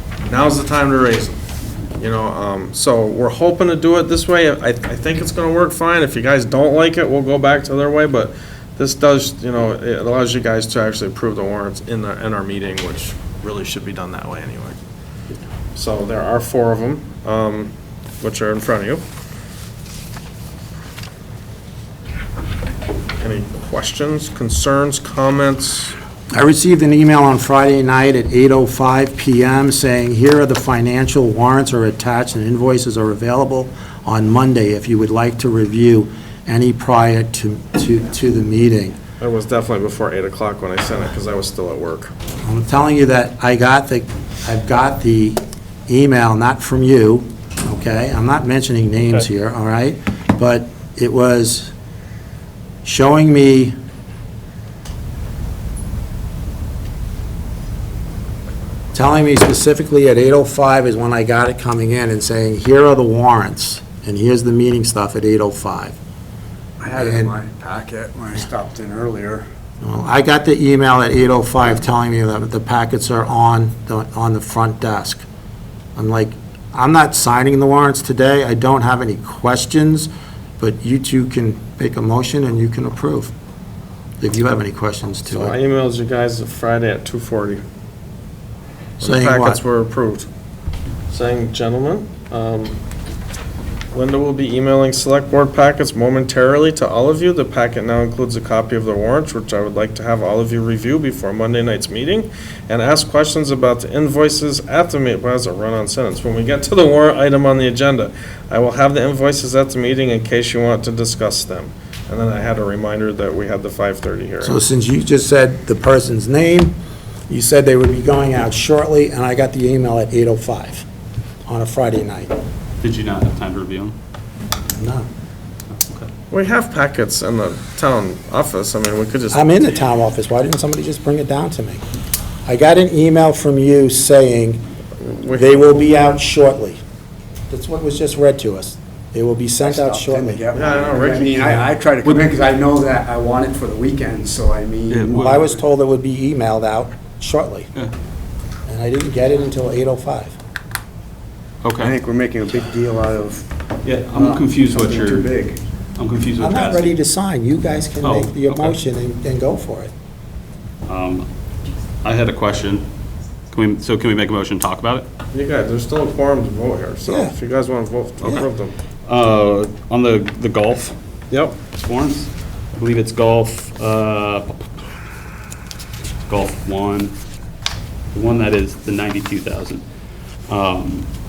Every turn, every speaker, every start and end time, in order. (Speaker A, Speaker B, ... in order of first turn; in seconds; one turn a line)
Speaker A: 0.2-1.4
Speaker A: 1.9-14.8
Speaker A: 15.7-19.0
Speaker A: 23.2-25.9
Speaker B: 26.3-39.0
Speaker A: 39.2-42.1
Speaker B: 42.4-51.7
Speaker B: 52.8-53.7
Speaker B: 58.9-66.0
Speaker C: 66.8-69.5
Speaker B: 66.9-67.3
Speaker B: 69.8-75.2
Speaker B: 76.0-83.3
Speaker B: 84.2-85.5
Speaker A: 85.3-87.6
Speaker A: 89.0-90.3
Speaker B: 89.0-89.6
Speaker A: 91.1-92.8
Speaker A: 93.9-114.6
Speaker B: 114.4-116.8
Speaker B: 117.3-120.8
Speaker B: 121.5-122.3
Speaker D: 122.8-124.0
Speaker B: 124.7-125.1
Speaker D: 125.7-126.1
Speaker A: 126.3-129.8
Speaker B: 129.3-131.8
Speaker B: 132.4-134.6
Speaker A: 135.0-135.7
Speaker B: 135.3-136.8
Speaker B: 137.5-140.4
Speaker C: 139.6-145.4
Speaker A: 140.5-141.6
Speaker D: 144.9-145.4
Speaker B: 145.1-147.7
Speaker B: 148.7-150.3
Speaker D: 151.6-152.0
Speaker C: 151.8-153.5
Speaker D: 153.8-155.3
Speaker C: 154.1-155.6
Speaker D: 155.9-156.9
Speaker B: 156.4-159.9
Speaker D: 158.0-158.8
Speaker D: 160.9-161.3
Speaker D: 162.0-162.9
Speaker D: 163.5-165.1
Speaker A: 165.3-168.7
Speaker B: 167.1-167.3
Speaker D: 169.1-170.9
Speaker A: 171.3-171.6
Speaker D: 171.7-174.5
Speaker D: 176.3-177.2
Speaker D: 178.1-179.8
Speaker D: 180.5-181.1